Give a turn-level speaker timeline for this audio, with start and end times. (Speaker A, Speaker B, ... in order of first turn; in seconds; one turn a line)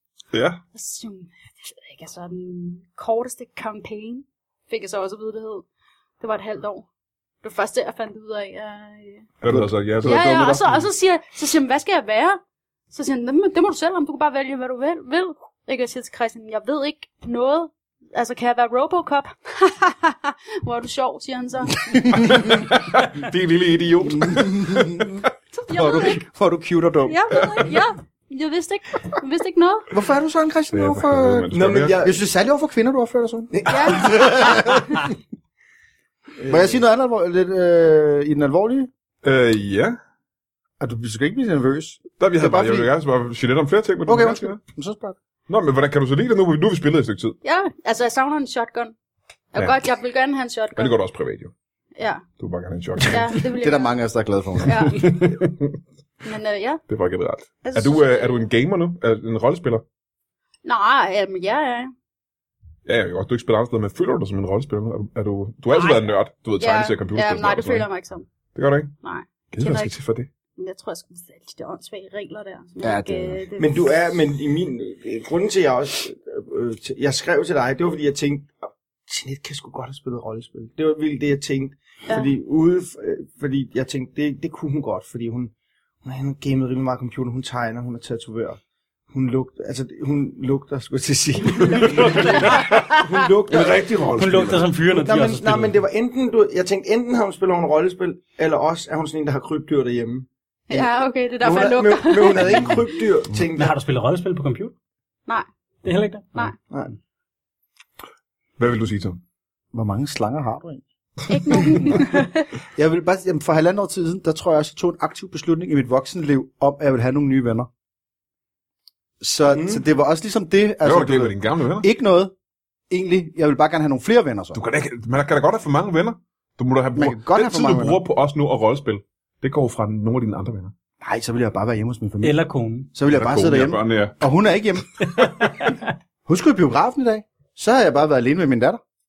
Speaker A: 0.3-0.6
Speaker B: 0.7-5.7
Speaker B: 6.2-6.9
Speaker B: 7.4-9.3
Speaker A: 9.4-10.3
Speaker C: 9.4-10.8
Speaker B: 10.0-12.4
Speaker B: 12.9-22.4
Speaker A: 22.2-25.1
Speaker C: 24.1-25.2
Speaker B: 25.6-26.2
Speaker C: 25.7-27.5
Speaker B: 27.0-29.9
Speaker C: 29.9-34.8
Speaker A: 30.7-31.9
Speaker D: 31.5-32.2
Speaker D: 33.5-35.0
Speaker B: 33.7-34.6
Speaker D: 36.4-36.8
Speaker C: 36.5-38.9
Speaker A: 39.2-40.0
Speaker C: 40.8-42.9
Speaker A: 42.2-44.6
Speaker C: 44.0-45.1
Speaker A: 45.5-47.4
Speaker B: 47.4-48.9
Speaker B: 49.5-51.0
Speaker A: 50.8-51.5
Speaker B: 52.0-52.2
Speaker A: 52.4-53.4
Speaker B: 53.0-54.0
Speaker C: 53.4-55.0
Speaker B: 54.6-55.4
Speaker A: 54.9-55.7
Speaker B: 56.2-56.8
Speaker A: 56.9-59.8
Speaker B: 57.6-58.5
Speaker B: 60.6-61.9
Speaker A: 62.9-67.9
Speaker B: 65.7-68.3
Speaker A: 68.5-68.9
Speaker B: 69.0-69.9
Speaker A: 69.5-70.3
Speaker B: 70.6-73.9
Speaker C: 72.8-73.4
Speaker D: 73.6-78.5
Speaker D: 79.1-85.5
Speaker D: 86.0-88.6
Speaker D: 89.1-94.0
Speaker A: 91.6-92.7
Speaker E: 91.9-93.0
Speaker A: 93.5-94.7
Speaker E: 94.1-95.8
Speaker D: 94.9-100.9
Speaker B: 100.7-103.0
Speaker D: 101.4-103.8
Speaker E: 103.5-104.7
Speaker E: 105.8-106.5
Speaker D: 106.7-106.9
Speaker A: 108.6-109.2
Speaker C: 109.7-110.8
Speaker B: 111.3-112.5
Speaker C: 111.5-112.0
Speaker C: 112.8-117.7
Speaker C: 119.2-122.3
Speaker D: 119.5-119.8
Speaker A: 120.8-121.9
Speaker C: 122.9-124.6
Speaker A: 124.5-130.7
Speaker C: 126.9-128.0
Speaker C: 131.0-135.0
Speaker E: 132.2-132.9
Speaker A: 133.1-134.2
Speaker C: 136.2-138.8